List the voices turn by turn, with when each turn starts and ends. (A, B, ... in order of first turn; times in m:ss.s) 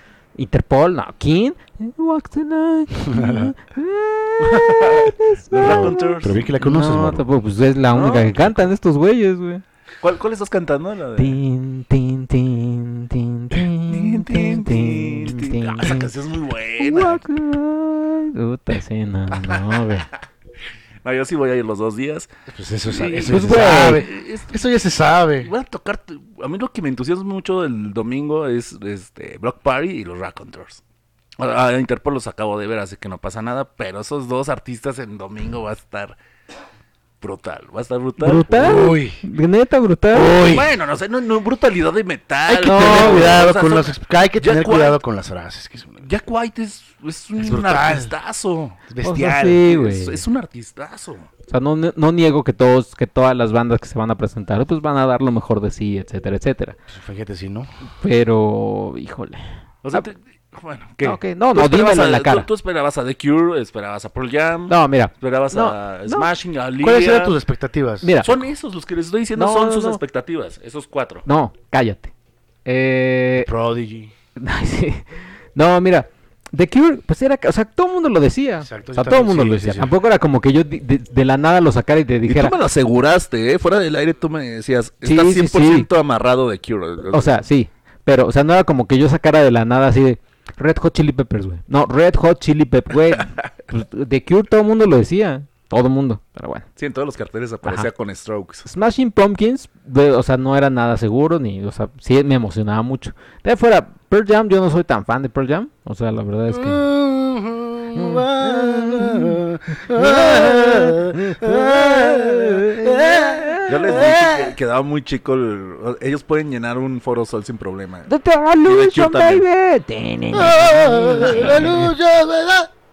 0:00.4-0:09.6 A
0:03.0-0:03.5 B
0:04.4-0:06.5 C
0:05.6-0:07.2 B
0:07.9-0:08.8 C
0:10.0-0:11.4 C
0:11.2-0:16.1 A
0:13.8-0:17.2 C
0:16.8-0:20.1 A
0:19.4-0:19.7 C
0:21.0-0:22.3 C
0:22.5-0:25.5 B
0:22.9-0:24.6 C
0:23.2-0:24.0 A
0:25.4-0:30.8 C
0:31.4-0:36.2 C
0:37.2-0:38.5 C
0:38.2-0:40.5 A
0:38.5-0:39.2 B
0:40.1-0:40.8 B
0:40.3-0:45.0 C
0:42.5-0:46.1 B
0:42.6-0:43.4 A
0:46.0-0:51.3 C
0:47.4-0:48.1 B
0:48.9-0:49.3 B
0:49.0-0:50.2 A
0:51.5-0:56.8 A
0:56.9-0:57.7 B
0:58.0-1:00.0 A
0:59.8-1:07.4 C
1:01.0-1:02.5 A
1:04.7-1:06.3 A
1:06.8-1:08.1 B
1:08.0-1:08.4 A
1:08.2-1:11.2 C
1:09.4-1:10.0 A
1:11.2-1:12.1 A
1:12.6-1:13.5 A
1:13.4-1:14.1 B
1:14.4-1:22.6 A
1:18.6-1:19.9 B
1:22.3-1:27.4 C
1:25.0-1:25.9 A
1:27.1-1:36.6 A
1:33.2-1:33.5 C
1:36.8-1:38.6 C
1:38.6-1:46.9 A
1:46.5-1:54.5 B
1:48.0-1:49.4 A
1:50.0-1:51.1 C
1:51.2-1:53.7 A
1:52.8-1:58.1 C
1:58.1-2:01.9 A
1:58.6-1:59.4 C
2:00.3-2:02.7 B
2:00.6-2:01.8 C